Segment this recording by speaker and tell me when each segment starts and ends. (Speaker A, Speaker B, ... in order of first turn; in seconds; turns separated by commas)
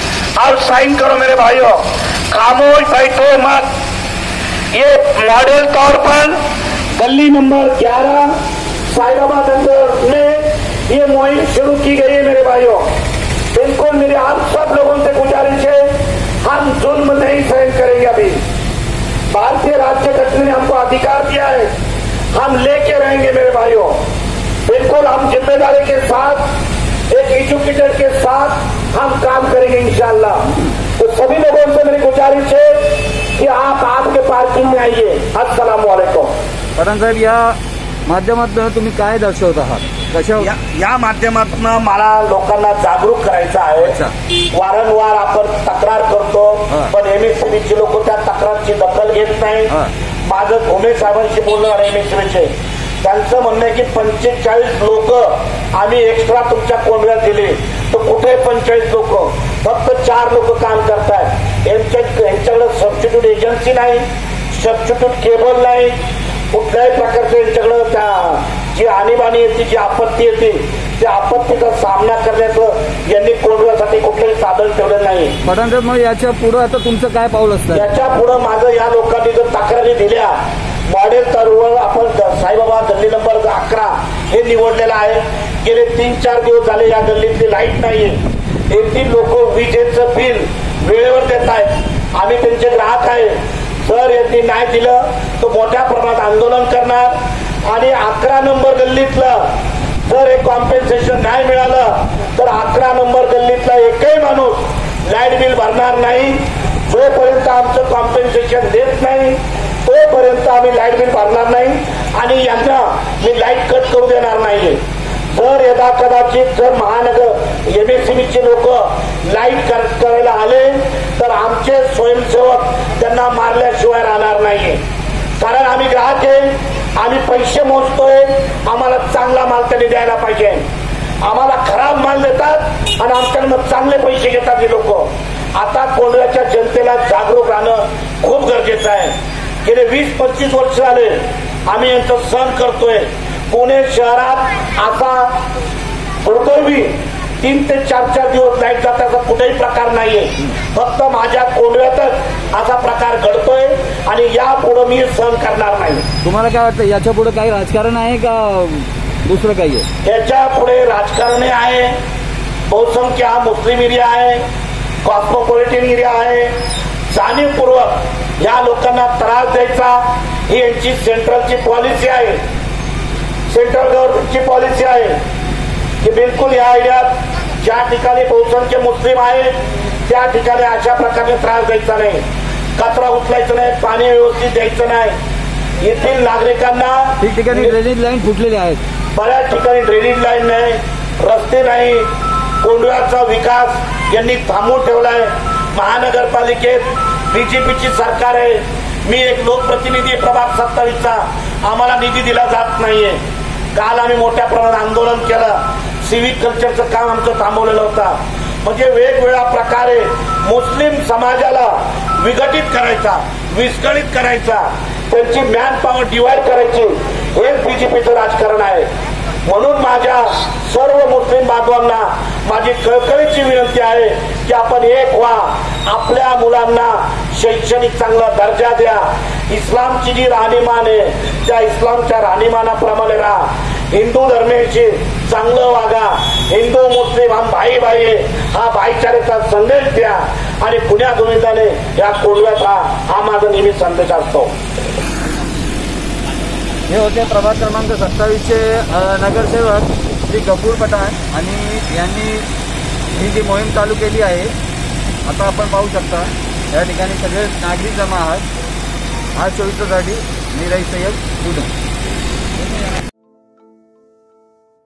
Speaker A: 0.4-3.7, Speaker A: 4.7-6.4, Speaker A: 7.0-8.3, Speaker A: 8.9-12.9, Speaker A: 13.5-18.4, Speaker A: 19.3-21.7, Speaker A: 22.3-24.0, Speaker A: 24.7-26.5, Speaker A: 27.1-30.4, Speaker A: 31.0-36.3, Speaker B: 36.8-40.5, Speaker A: 40.4-44.0, Speaker B: 43.8-44.1, Speaker A: 44.5-49.7, Speaker A: 50.2-52.5, Speaker A: 53.0-66.0, Speaker A: 66.5-75.4, Speaker B: 75.4-77.9, Speaker A: 77.7-99.5, Speaker A: 100.1-114.8, Speaker A: 115.3-124.8, Speaker A: 125.4-130.6, Speaker A: 131.2-145.4, Speaker A: 146.2-156.1, Speaker B: 156.2-159.9, Speaker A: 160.0-162.0, Speaker A: 162.7-164.4, Speaker A: 165.0-166.6, Speaker A: 167.1-172.4, Speaker A: 173.5-175.2, Speaker A: 176.0-182.2, Speaker A: 182.8-185.2, Speaker A: 185.8-187.8, Speaker B: 187.2-188.8, Speaker A: 189.1-192.1, Speaker A: 192.6-203.2, Speaker A: 203.8-218.9, Speaker A: 219.4-244.5, Speaker B: 246.9-252.5, Speaker B: 253.1-254.5, Speaker B: 255.2-258.4, Speaker B: 259.4-261.7